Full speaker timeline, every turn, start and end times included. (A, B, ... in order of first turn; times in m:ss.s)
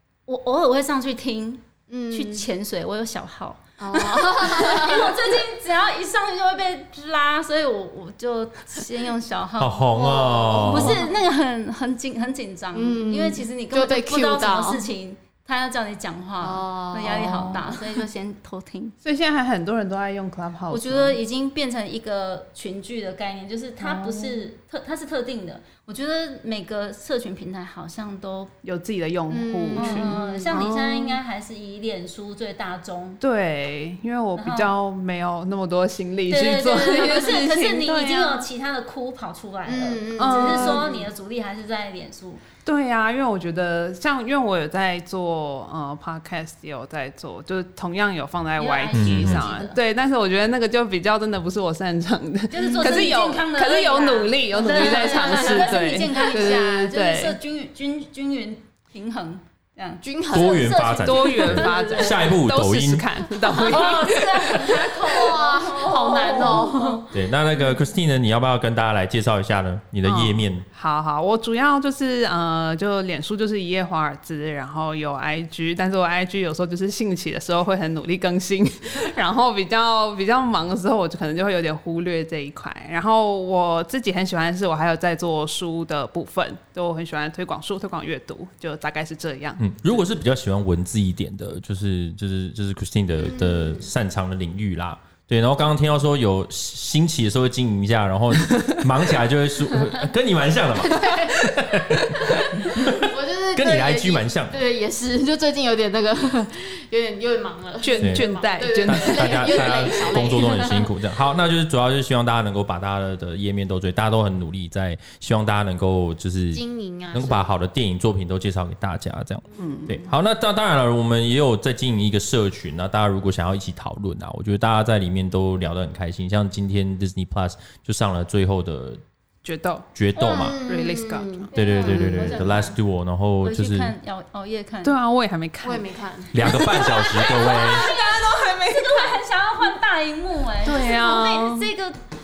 0:00.3-0:09.9 A
0:01.9-0:02.5 B
0:03.8-0:05.2 B
0:09.6-0:11.0 C
0:09.9-0:11.1 B
0:10.5-0:18.9 A
0:12.7-0:14.8 B
0:16.4-0:17.7 B
0:19.0-0:21.2 D
0:20.7-0:28.5 A
0:23.8-0:24.4 D
0:28.6-0:31.2 D
0:29.3-0:30.2 B
0:29.7-0:33.2 A
0:33.2-0:38.4 D
0:34.4-0:34.8 A
0:36.3-0:42.4 A
0:39.6-0:41.1 B
0:40.2-0:40.9 D
0:42.6-0:57.4 D
0:48.6-0:49.8 A
0:48.9-0:49.4 C
0:52.5-1:02.4 A
0:54.9-0:56.6 B
1:00.0-1:00.9 B
1:00.3-1:03.2 C
1:01.0-1:05.3 D
1:03.6-1:07.0 A
1:05.0-1:07.1 B
1:07.1-1:10.6 C
1:10.0-1:29.6 D
1:29.6-1:44.6 C
1:33.2-1:33.9 B
1:40.8-1:50.9 B
1:47.8-1:49.9 D
1:48.0-1:56.6 C
1:56.5-1:57.5 B
1:57.1-2:09.0 C
1:59.6-2:00.0 D
2:09.4-2:11.5 D
2:09.9-2:10.6 C
2:10.2-2:12.4 B
2:11.5-2:12.8 A
2:11.5-2:13.9 C
2:13.4-2:14.9 A
2:14.8-2:19.2 D
2:15.6-2:16.3 B
2:16.3-2:17.9 C
2:16.7-2:22.0 A
2:20.6-2:21.7 D